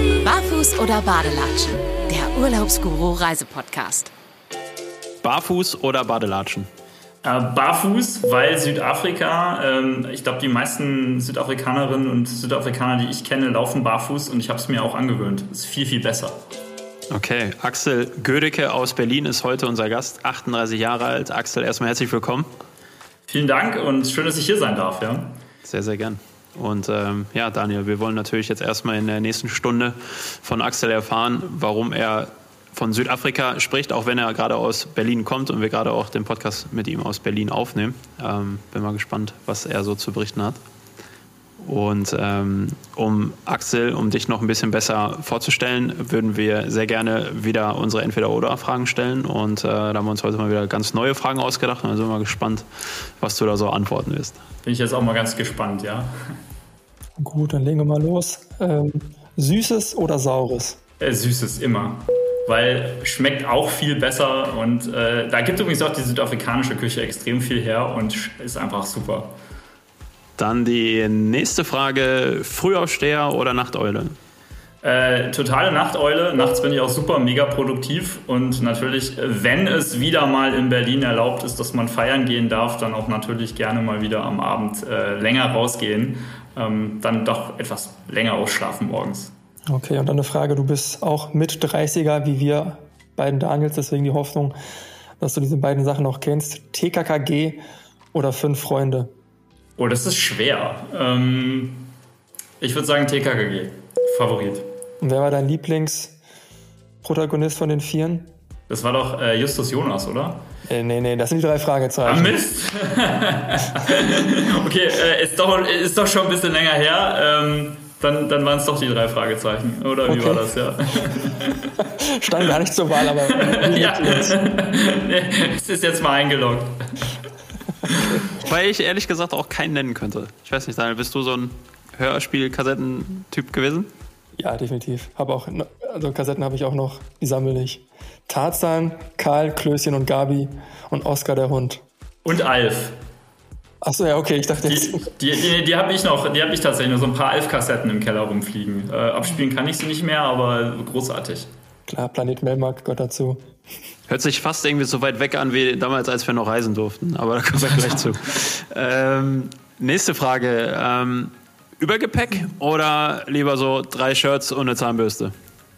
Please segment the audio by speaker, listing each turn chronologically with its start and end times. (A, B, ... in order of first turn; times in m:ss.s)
0:00.2-0:04.1 A
0:05.2-0:06.7 B
0:07.2-0:16.4 C
0:17.1-0:22.5 B
0:23.3-0:25.3 C
0:25.6-0:40.6 B
0:41.6-0:52.7 B
0:53.2-0:54.4 B
0:54.6-0:56.1 C
0:57.2-1:00.8 D
1:01.0-1:09.3 C
1:10.4-1:14.2 B
1:14.8-1:29.3 C
1:29.7-1:34.6 D
1:35.2-1:37.6 D
1:38.1-1:39.1 D
1:39.8-1:41.9 C
1:42.6-1:44.7 C
1:45.0-1:46.2 D
1:47.0-1:48.3 D
1:48.7-1:50.4 C
1:50.7-1:52.4 D
1:52.0-2:01.7 C
2:00.1-2:00.4 D
2:01.8-2:04.4 D
2:03.4-2:07.1 C
2:07.9-2:08.2 C
2:08.3-2:13.9 B
2:14.4-2:21.8 D
2:22.2-2:23.0 C
2:23.8-2:25.1 D
2:24.6-2:31.5 C
2:31.9-2:33.5 D
2:34.1-2:45.3 B